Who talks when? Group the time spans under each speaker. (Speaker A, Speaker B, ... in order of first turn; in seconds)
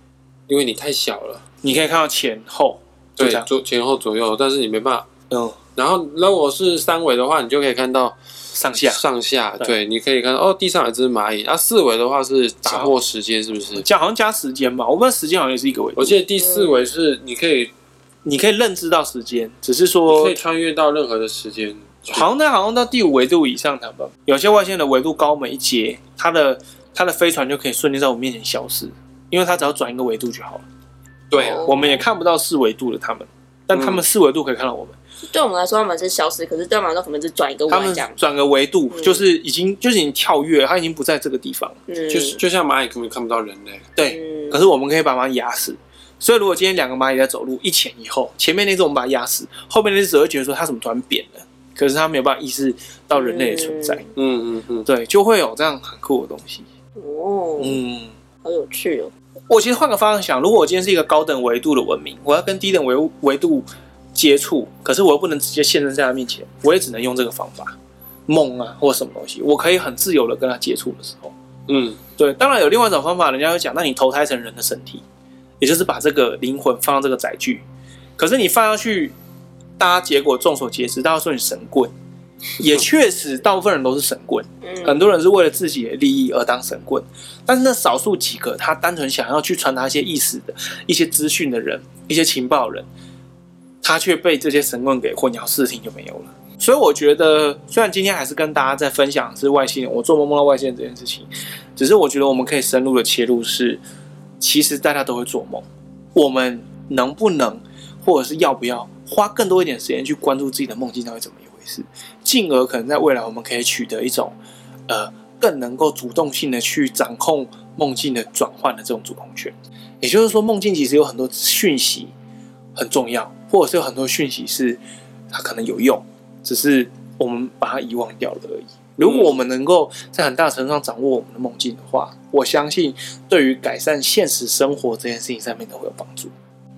Speaker A: 0.5-1.5, 3.2-5.1, 5.8-8.2, 8.7-13.9, 16.0-17.7, 20.1-22.3, 31.3-31.8, 33.7-34.0, 42.1-43.9, 54.2-54.9, 71.7-72.0, 129.0-129.4
Speaker B: 1.6-3.5, 5.3-5.6, 8.5-9.0, 12.7-12.9, 13.8-16.2, 18.2-20.4, 22.1-30.6, 31.6-35.0, 37.7-41.8, 44.0-54.0, 54.9-56.7, 57.6-58.1, 59.5-67.8, 68.3-71.3, 72.2-75.0, 75.6-77.6, 78.2-79.2, 79.8-81.9, 82.6-92.9, 93.8-103.8, 104.4-114.4, 114.9-122.1, 122.8-124.8, 125.3-136.3
Speaker C: 16.4-16.8, 31.4-32.0, 35.3-38.2, 38.9-39.2, 41.9-42.4, 44.1-44.7, 53.1-54.1, 57.0-57.8, 58.4-59.1, 84.6-85.1